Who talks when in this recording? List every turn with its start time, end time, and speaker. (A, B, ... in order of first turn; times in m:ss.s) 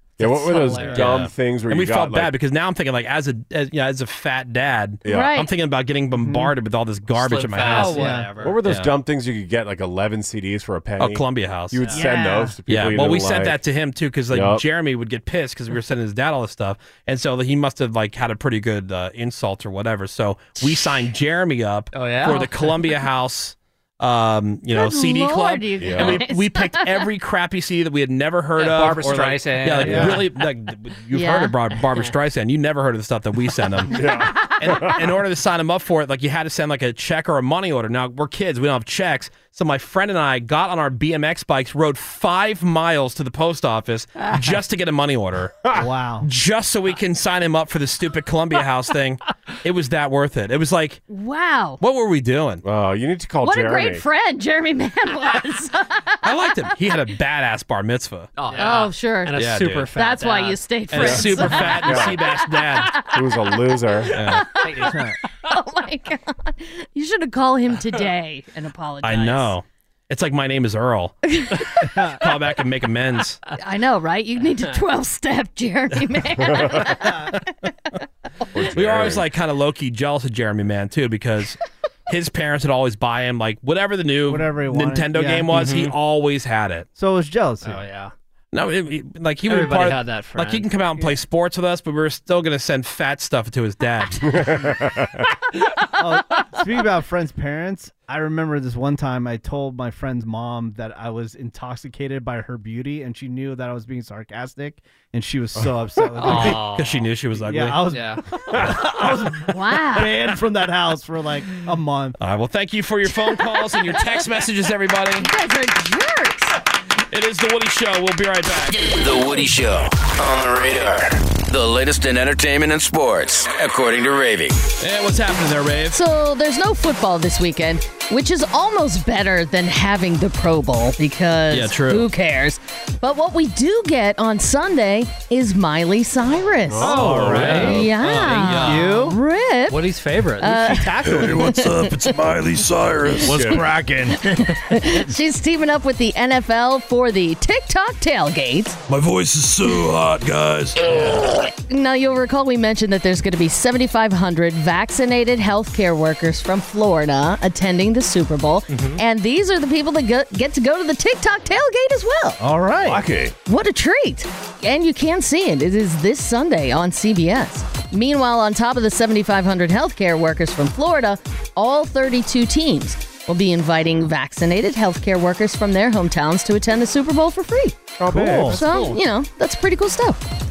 0:00.2-0:02.3 A
0:00.2-0:01.1 B
0:00.6-0:01.0 C
0:00.9-0:08.1 D
0:05.0-0:05.3 A
0:05.1-0:05.5 E
0:06.1-0:06.5 C
0:07.2-0:08.6 B
0:07.5-0:07.8 F
0:07.8-0:08.3 C
0:08.4-0:13.6 A
0:08.6-0:08.9 D
0:11.0-0:11.8 D
0:11.8-0:12.1 B
0:11.9-0:12.6 C
0:12.7-0:45.6 D
0:14.3-0:14.6 A
0:20.6-0:21.0 E
0:21.9-0:22.5 F
0:24.7-0:27.1 E
0:25.8-0:26.2 A
0:28.6-0:30.2 F
0:29.8-0:30.2 C
0:31.1-0:31.8 E
0:33.9-0:35.2 A
0:45.7-0:46.3 C
0:46.2-0:51.0 D
0:51.1-0:51.8 E
0:51.8-0:52.6 D
0:52.6-0:54.0 A
0:53.4-0:56.5 E
0:56.2-0:58.3 D
0:58.4-0:58.9 F
0:58.5-1:01.9 B
0:58.5-1:04.9 E
0:59.3-0:59.9 D
1:00.9-1:03.0 D
1:01.0-1:02.2 A
1:03.0-1:04.2 A
1:04.1-1:04.5 D
1:04.6-1:05.0 F
1:04.8-1:05.2 C
1:05.4-1:09.5 E
1:09.0-1:11.2 D
1:11.3-1:11.9 E
1:11.9-1:12.2 C
1:12.2-1:13.4 D
1:13.6-1:17.5 E
1:14.5-1:14.8 B
1:16.5-1:16.8 A
1:18.5-1:19.3 A
1:18.7-1:26.9 D
1:24.3-1:25.7 C
1:25.5-1:25.9 B
1:27.0-1:27.8 C
1:27.6-1:28.1 B
1:28.5-1:34.5 D
1:29.5-1:30.7 B
1:34.2-1:35.2 A
1:36.0-1:46.7 C
1:46.2-1:47.1 B
1:46.5-1:47.8 D
1:47.4-1:52.2 C
1:47.9-1:48.2 B
1:48.5-1:48.9 A
1:49.5-1:50.2 E
1:52.2-1:55.3 D
1:53.2-1:54.1 E
1:55.2-1:56.6 E
1:57.1-1:59.0 D
1:58.9-2:04.6 G
2:04.8-2:06.0 D
2:05.9-2:17.0 E
2:11.5-2:12.1 D
2:16.7-2:18.0 A
2:16.8-2:17.8 B
2:16.8-2:19.2 C
2:17.7-2:19.8 E
2:18.0-2:19.0 D
2:19.7-2:20.8 B
2:20.4-2:22.2 E
2:20.8-2:23.6 H
2:23.2-2:23.8 A
2:23.3-2:24.4 C
2:24.3-2:28.8 E
2:28.9-2:31.0 H
2:31.0-2:42.4 E
2:38.7-2:39.0 B
2:42.4-2:43.0 C
2:42.8-2:43.3 A
2:43.5-2:57.9 E
2:58.0-2:59.0 A
2:58.1-2:58.6 C
2:58.4-3:00.2 E